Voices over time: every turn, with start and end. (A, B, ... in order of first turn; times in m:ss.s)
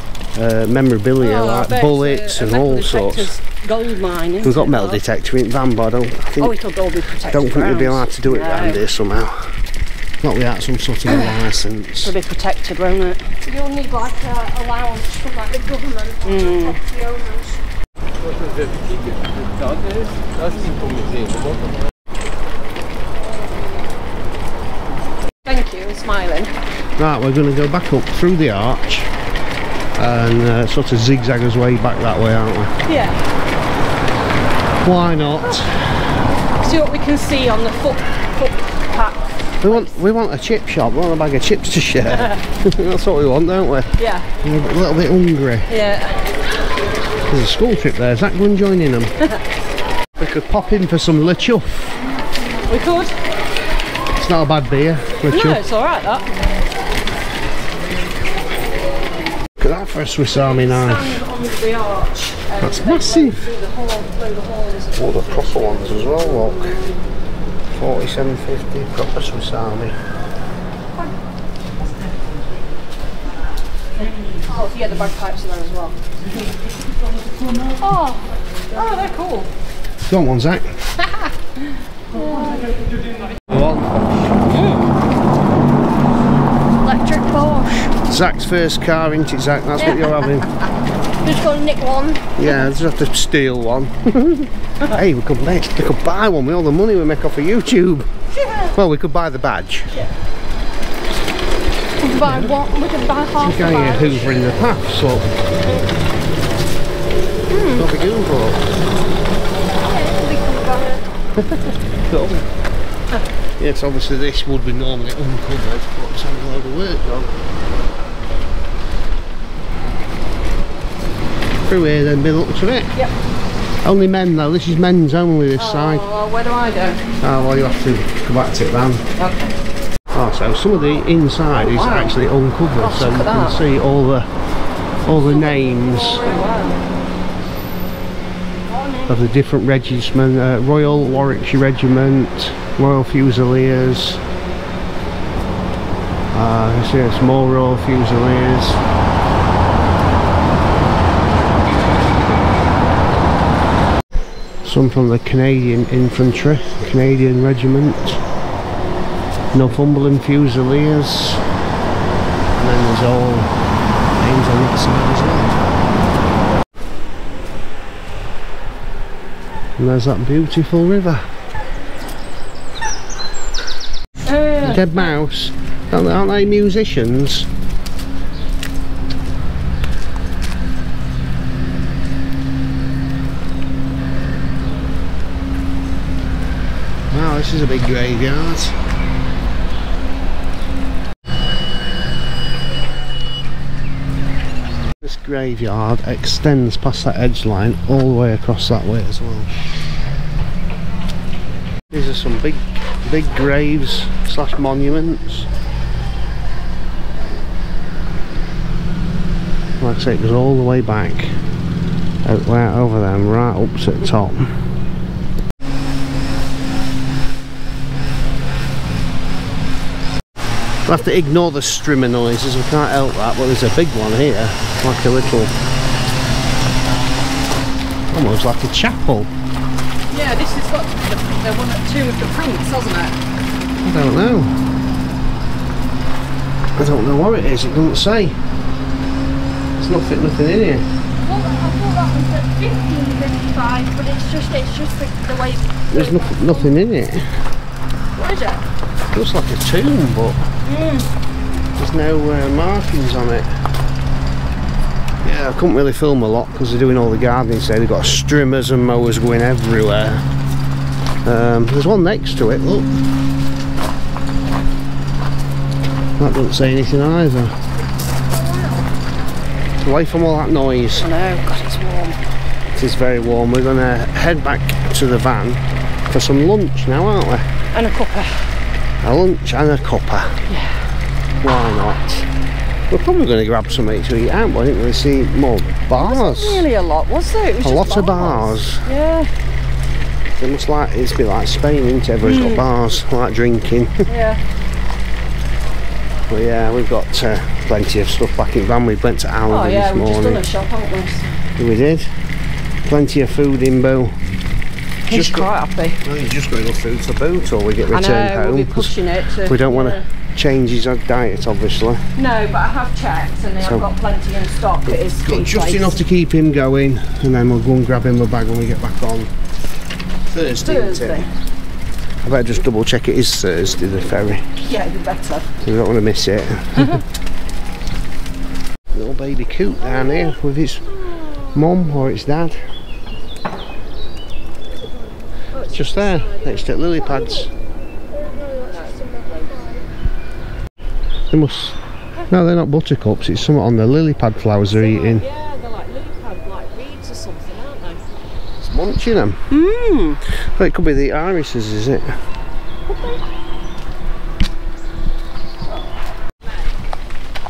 0:00.3-0:03.3 A
0:01.2-0:05.0 B
0:04.4-0:06.6 A
0:06.4-0:08.8 B
0:07.3-0:09.6 A
0:10.2-0:12.1 A
0:11.1-0:11.3 B
0:12.0-0:13.3 B
0:13.4-0:17.6 C
0:16.2-0:16.8 B
0:25.4-0:26.5 B
0:27.0-0:29.1 A
0:30.0-0:32.8 A
0:32.9-0:33.2 B
0:34.8-0:36.0 A
0:36.6-0:40.0 B
0:39.6-0:45.7 A
0:42.1-0:42.4 B
0:44.0-0:44.3 B
0:45.7-0:46.3 B
0:47.2-0:49.1 A
0:50.2-0:52.0 A
0:52.7-0:53.1 B
0:54.1-0:55.6 A
0:55.3-0:56.3 B
0:59.6-1:01.1 A
1:00.3-1:06.8 B
1:02.6-1:03.4 A
1:04.9-1:06.8 A
1:07.7-1:10.0 A
1:14.0-1:16.0 B
1:17.8-1:18.3 C
1:18.7-1:19.5 B
1:20.1-1:21.0 A
1:22.1-1:22.7 C
1:23.5-1:24.0 A
1:24.5-1:24.9 B
1:26.8-1:27.9 C
1:28.1-1:30.5 A
1:29.8-1:30.1 C
1:31.2-1:32.7 C
1:32.4-1:38.1 A
1:38.4-1:38.7 B
1:38.7-1:39.9 A
1:42.0-1:44.5 C
1:42.2-1:42.6 A
1:43.3-1:45.3 A
1:47.5-1:47.9 C
1:47.7-1:48.6 A
1:49.8-1:51.0 C
1:51.4-1:52.4 A
1:53.6-1:57.3 A
2:01.7-2:02.9 A
2:03.8-2:06.1 A
2:05.6-2:07.0 B
2:07.2-2:09.0 A
2:09.2-2:09.5 B
2:10.1-2:14.3 A
2:11.5-2:12.2 B
2:12.8-2:13.6 B
2:15.0-2:16.2 A
2:15.1-2:16.8 B
2:18.7-2:19.0 C
2:19.1-2:24.2 A
2:26.3-2:28.8 A
2:34.6-2:38.2 A
2:39.5-2:41.4 A
2:42.6-2:43.6 A
2:44.2-2:45.7 A
2:49.8-2:51.2 A
2:54.2-2:55.0 B
2:54.6-2:57.5 A
3:07.1-3:08.8 A
3:15.0-3:19.5 A
3:21.9-3:25.5 A
3:29.8-3:31.4 A
3:32.2-3:34.7 A
3:40.8-3:45.5 A
3:48.1-3:49.3 A
3:50.1-3:53.2 B
3:53.8-3:54.5 A
3:56.8-3:58.4 A
3:59.8-4:00.8 A
4:01.2-4:06.7 C
4:05.9-4:07.3 A
4:08.2-4:08.6 C
4:09.1-4:10.4 A
4:11.8-4:13.5 A
4:15.2-4:20.2 A
4:21.2-4:22.9 A
4:26.2-4:27.5 A
4:28.4-4:28.8 B
4:29.8-4:31.1 A
4:31.0-4:32.2 B
4:32.7-4:37.5 A
4:37.7-4:38.5 B
4:39.0-4:40.4 A
4:40.5-4:40.8 B
4:41.4-4:42.3 A
4:42.9-4:46.6 A
4:46.0-4:49.3 B
4:47.6-4:48.8 A
4:50.4-4:54.0 A
4:52.2-4:52.6 B
4:54.1-4:54.4 B
4:56.3-5:00.4 A
4:59.5-5:01.4 B
5:01.6-5:02.1 A
5:02.8-5:04.2 A
5:05.0-5:06.0 B
5:05.1-5:05.5 A
5:06.0-5:12.1 A
5:07.9-5:10.0 B
5:12.2-5:16.0 B
5:13.6-5:13.8 A
5:14.9-5:19.3 A
5:20.2-5:21.2 A
5:20.6-5:21.3 B
5:22.2-5:24.5 A
5:24.6-5:25.5 B
5:25.6-5:27.0 A
5:28.9-5:30.9 A
5:31.5-5:32.6 A
5:35.5-5:36.7 B
5:35.7-5:37.5 A
5:36.9-5:37.5 C
5:38.1-5:39.8 C
5:38.7-5:39.6 B
5:41.3-5:41.8 A
5:42.3-5:45.2 A
5:44.7-5:48.1 B
5:48.6-5:49.4 A
5:49.5-5:50.2 B
5:50.3-5:52.2 A
5:52.9-5:53.2 B
5:55.7-5:56.6 B